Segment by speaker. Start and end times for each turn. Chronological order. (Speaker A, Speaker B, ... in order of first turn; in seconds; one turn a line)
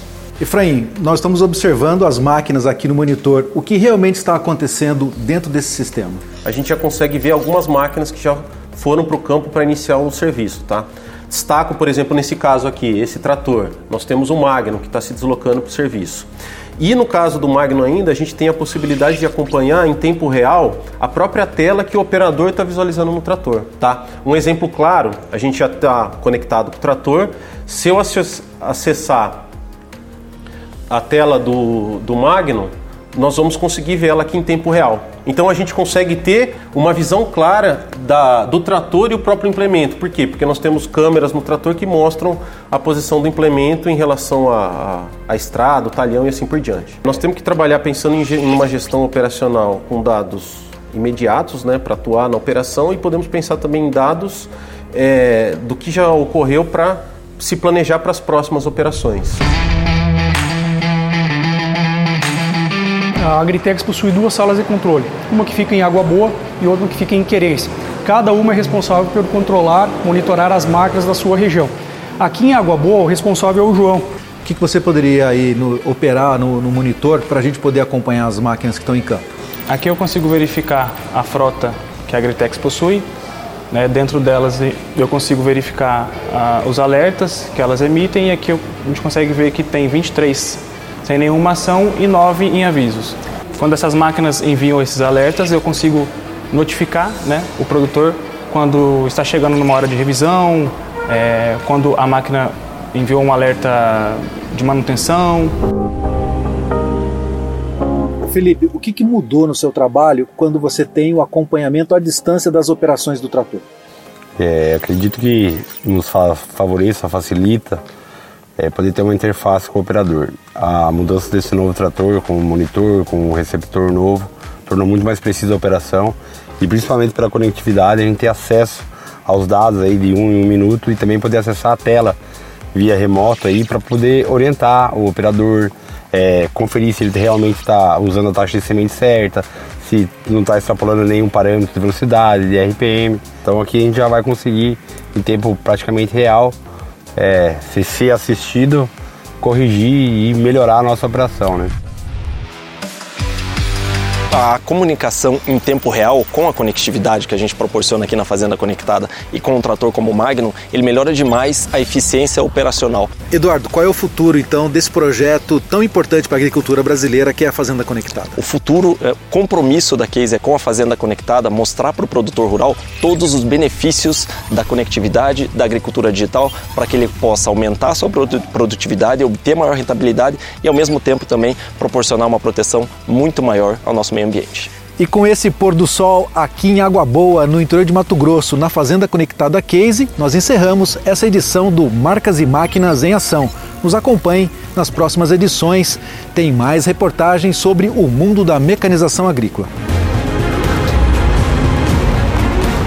Speaker A: 0.4-6.2
Speaker B: 6.4-29.5
Speaker B: 30.9-59.4
Speaker C: 63.2-74.1
Speaker A: 74.5-79.2
Speaker D: 79.7-83.1
Speaker D: 83.7-105.6
Speaker A: 108.3-113.6
Speaker E: 114.4-117.8
Speaker E: 118.6-132.2
Speaker E: 132.7-146.6
Speaker E: 147.2-151.7
Speaker F: 154.3-163.1
Speaker A: 163.3-168.4
Speaker F: 168.4-184.7
Speaker A: 185.0-199.7